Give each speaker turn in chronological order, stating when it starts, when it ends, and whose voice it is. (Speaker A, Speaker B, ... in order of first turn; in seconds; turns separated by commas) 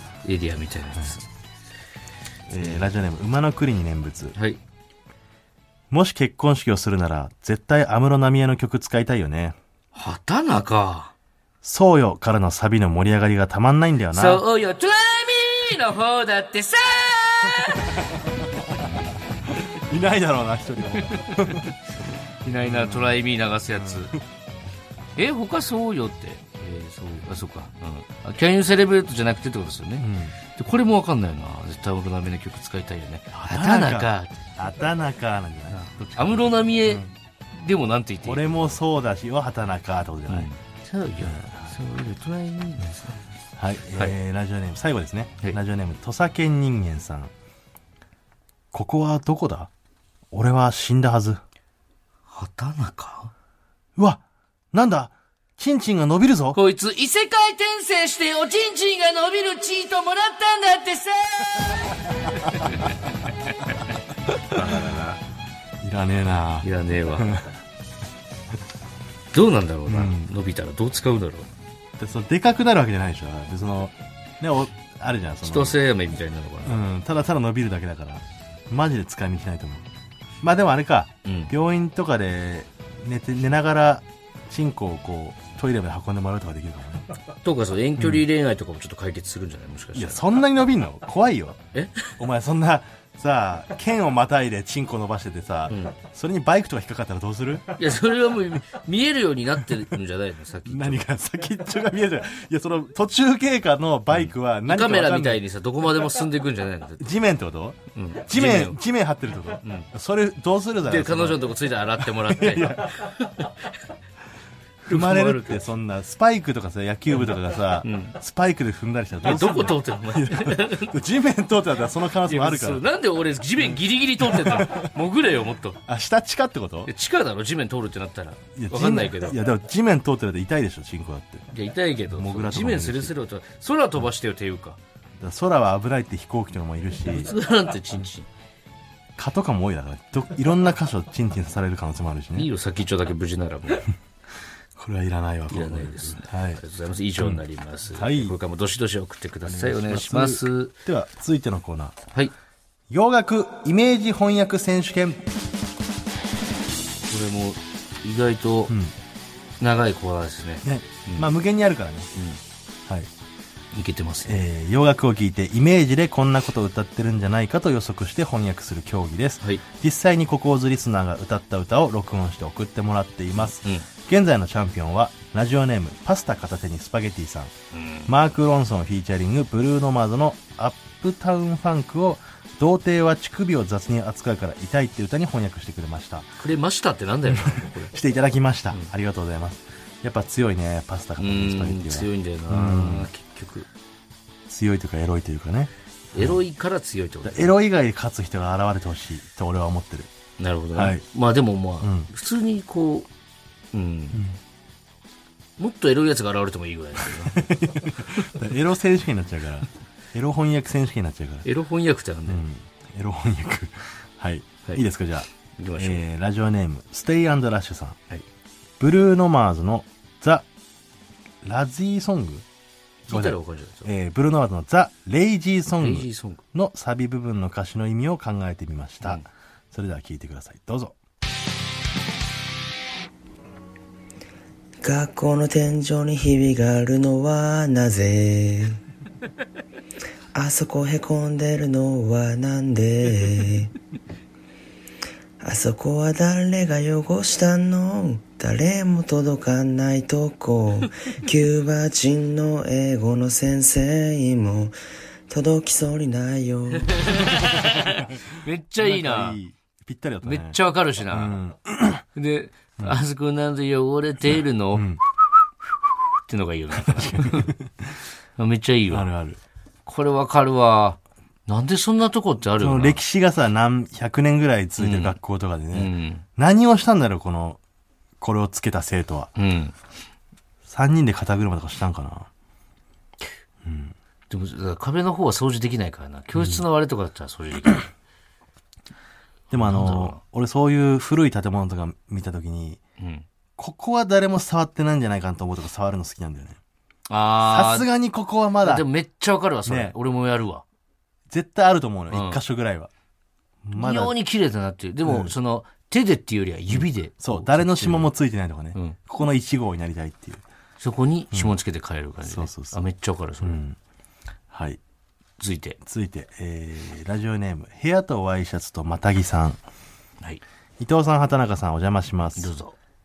Speaker A: 0.2-1.2, Speaker B: 2.5-4.3, Speaker A: 2.6-2.9, Speaker B: 5.9-9.6, Speaker A: 9.9-11.1, Speaker B: 11.6-14.4, Speaker A: 14.1-18.0, Speaker B: 17.7-18.8, Speaker B: 19.4-21.7, Speaker A: 20.9-21.7, Speaker A: 22.4-24.1, Speaker B: 22.5-23.2, Speaker B: 23.8-24.2, Speaker A: 25.1-34.4, Speaker B: 30.0-30.4, Speaker B: 33.3-37.1, Speaker A: 35.7-38.8, Speaker B: 38.2-40.5, Speaker A: 40.3-43.2, Speaker B: 41.2-41.6, Speaker B: 43.6-47.3, Speaker B: 48.7-49.7, Speaker B: 50.3-51.4, Speaker A: 52.3-53.3, Speaker B: 54.0-56.6, Speaker A: 56.5-63.8, Speaker A: 64.3-65.2, Speaker B: 65.8-67.5, Speaker A: 66.6-67.3, Speaker A: 69.3-71.5, Speaker B: 69.9-70.3, Speaker B: 72.0-75.8, Speaker A: 75.4-76.8, Speaker B: 76.6-79.8, Speaker B: 80.4-87.1, Speaker A: 81.2-81.5, Speaker A: 87.4-90.2, Speaker B: 88.0-88.2, Speaker B: 89.9-91.6, Speaker A: 91.7-92.2, Speaker B: 92.2-97.8, Speaker A: 95.7-96.0, Speaker A: 97.8-101.0, Speaker B: 100.6-105.4, Speaker A: 104.1-107.1, Speaker B: 107.0-113.1, Speaker A: 107.9-108.8, Speaker A: 109.6-109.9, Speaker A: 110.8-113.7, Speaker A: 114.8-115.7, Speaker B: 114.9-122.8, Speaker A: 117.8-118.2, Speaker A: 119.2-121.0, Speaker A: 122.3-125.8, Speaker B: 124.2-124.9, Speaker B: 125.8-126.9, Speaker A: 126.8-129.4, Speaker B: 128.6-131.5, Speaker A: 131.5-134.8, Speaker B: 132.1-133.1, Speaker B: 135.2-137.3, Speaker A: 137.0-138.3, Speaker B: 139.2-142.5, Speaker A: 142.3-143.9, Speaker B: 144.8-146.6, Speaker A: 145.5-150.7, Speaker B: 147.9-148.3, Speaker B: 149.4-152.0, Speaker B: 152.9-155.3, Speaker A: 157.1-158.7, Speaker B: 158.7-158.9, Speaker A: 159.6-161.3, Speaker B: 160.6-162.1, Speaker A: 162.1-162.4, Speaker A: 163.7-164.4, Speaker B: 164.2-177.5, Speaker A: 173.4-173.8, Speaker A: 177.7-178.1, Speaker B: 178.1-186.3, Speaker A: 186.4-187.9, Speaker B: 187.3-193.1, Speaker A: 191.2-193.7, Speaker B: 194.5-196.4, Speaker A: 196.1-197.5, Speaker B: 197.2-200.1, Speaker A: 200.4-203.1, Speaker B: 200.7-201.0, Speaker B: 201.8-202.1, Speaker A: 203.7-204.2, Speaker B: 204.1-204.4, Speaker A: 205.6-208.0, Speaker B: 207.2-211.5, Speaker A: 211.4-212.4, Speaker B: 212.3-218.0, Speaker A: 215.6-216.0, Speaker B: 218.8-220.4, Speaker B: 221.4-222.4, Speaker A: 223.1-223.9, Speaker B: 223.1-230.9, Speaker A: 225.8-226.4, Speaker C: 234.8-238.8, Speaker C: 240.3-243.7, Speaker C: 245.4-254.7, Speaker C: 255.3-257.3, Speaker A: 256.8-259.4, Speaker B: 257.9-258.1, Speaker B: 258.8-260.6, Speaker A: 260.2-261.4, Speaker B: 261.1-262.0, Speaker A: 262.1-264.9, Speaker B: 264.7-265.0, Speaker A: 266.3-267.5, Speaker B: 266.8-267.9, Speaker A: 268.4-269.1, Speaker B: 268.9-269.4, Speaker A: 269.9-273.0, Speaker B: 272.5-277.6, Speaker A: 274.8-275.1, Speaker A: 275.7-276.2, Speaker B: 278.2-279.3, Speaker A: 279.4-279.7, Speaker B: 280.6-282.3, Speaker B: 283.6-283.9, Speaker A: 284.3-287.9, Speaker B: 289.5-292.8, Speaker A: 289.5-290.2, Speaker A: 293.0-293.2, Speaker B: 293.6-296.6, Speaker A: 297.1-297.9, Speaker B: 297.4-298.9, Speaker A: 298.6-300.6, Speaker B: 299.6-299.9, Speaker B: 301.3-302.9, Speaker A: 302.1-302.4, Speaker B: 303.6-304.1, Speaker A: 303.7-308.1, Speaker B: 305.1-305.3, Speaker B: 306.7-310.4, Speaker A: 310.8-313.6, Speaker B: 312.2-312.8, Speaker B: 313.4-313.8, Speaker B: 314.5-314.8, Speaker A: 315.4-315.8, Speaker B: 315.8-319.6, Speaker B: 320.8-322.5, Speaker A: 322.4-322.7